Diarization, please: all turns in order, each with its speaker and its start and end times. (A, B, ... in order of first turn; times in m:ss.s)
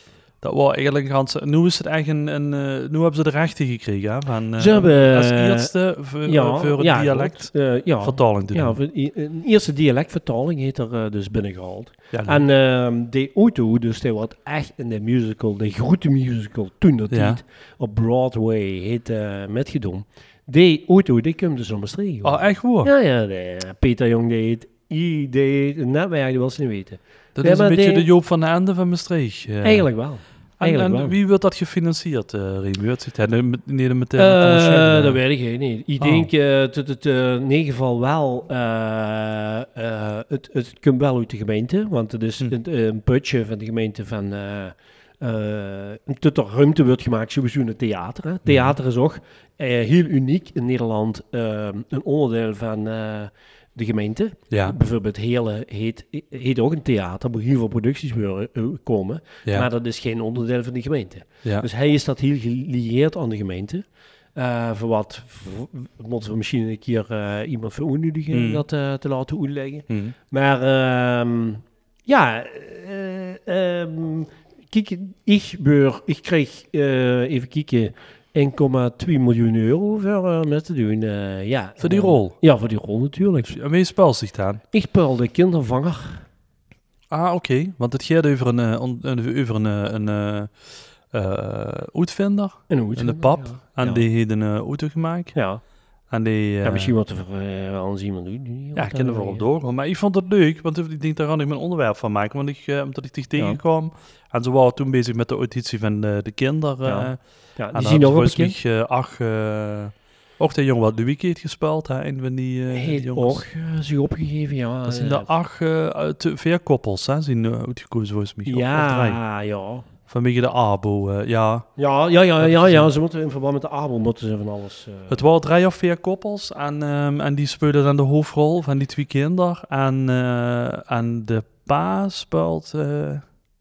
0:00.4-0:08.8 A
0:04.6-0:05.7 B
0:06.2-0:28.1 B
0:12.1-0:12.4 A
0:17.1-0:17.4 A
0:22.2-0:22.9 A
0:27.4-0:29.9 A
0:29.6-0:31.2 B
0:30.6-0:35.2 A
0:34.2-1:23.6 B
0:36.0-0:36.3 A
0:54.5-0:54.8 A
1:08.3-1:08.6 A
1:21.8-1:22.4 A
1:23.5-1:24.6 A
1:24.7-1:26.2 B
1:27.1-1:35.4 A
1:32.7-1:34.0 B
1:35.3-1:35.6 B
1:36.1-1:36.9 A
1:36.6-1:39.4 B
1:38.8-1:47.2 A
1:46.8-1:48.6 B
1:47.7-1:53.4 A
1:52.7-1:55.3 B
1:54.9-1:59.2 A
1:58.5-1:59.9 B
2:00.1-2:01.7 A
2:01.8-2:05.2 B
2:02.4-2:02.9 A
2:05.1-2:13.2 A